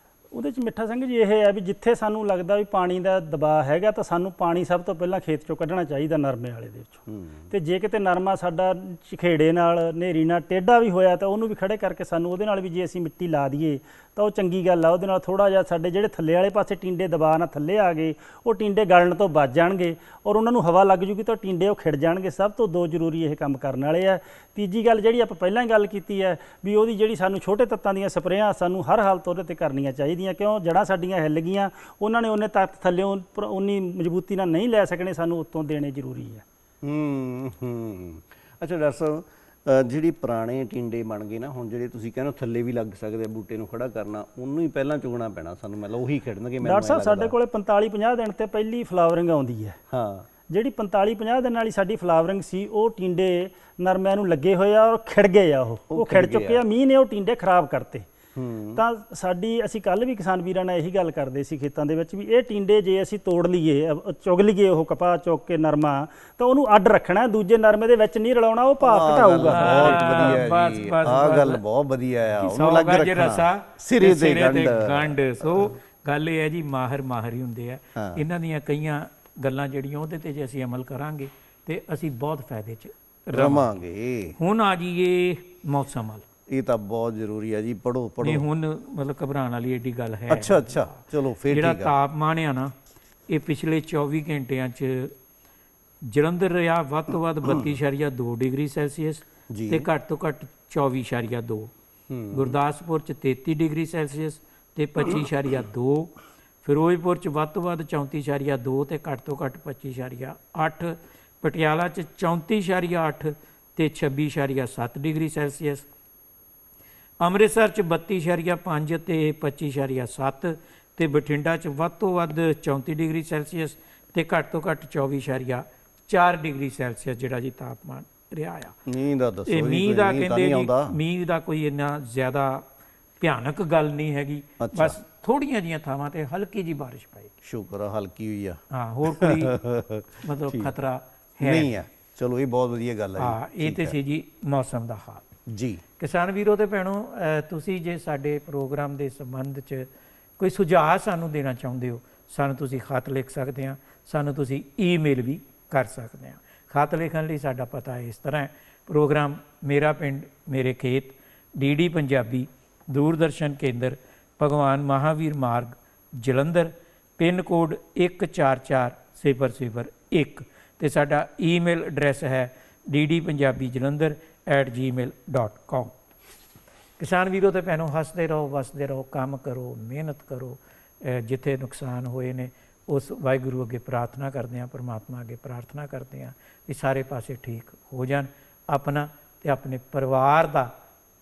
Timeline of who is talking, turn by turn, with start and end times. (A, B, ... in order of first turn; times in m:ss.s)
0:00.3-0:36.4 A
0:07.1-0:07.5 B
0:36.8-0:47.3 B
0:46.6-0:49.8 A
0:49.9-0:50.3 B
0:50.5-0:58.1 A
0:55.9-0:56.6 B
0:58.4-0:58.8 B
0:58.8-1:10.4 A
1:08.8-1:15.7 B
1:09.5-1:11.6 C
1:12.4-1:23.7 C
1:18.0-1:18.2 B
1:23.3-1:24.4 B
1:24.4-1:26.2 C
1:26.5-1:28.5 B
1:28.2-1:32.7 C
1:30.3-1:31.9 B
1:33.3-1:35.1 C
1:36.0-1:41.7 C
1:39.5-1:39.8 B
1:42.1-1:42.6 B
1:42.3-1:55.9 C
1:57.2-2:08.7 C
2:08.9-2:10.9 B
2:09.5-2:12.6 C
2:13.2-2:17.3 C
2:14.6-2:15.0 B
2:17.4-2:20.7 B
2:18.7-2:19.6 C
2:20.2-2:21.7 C
2:21.4-2:23.9 B
2:23.2-2:25.2 C
2:25.5-2:25.8 B
2:26.0-2:55.9 C
2:57.0-3:10.7 C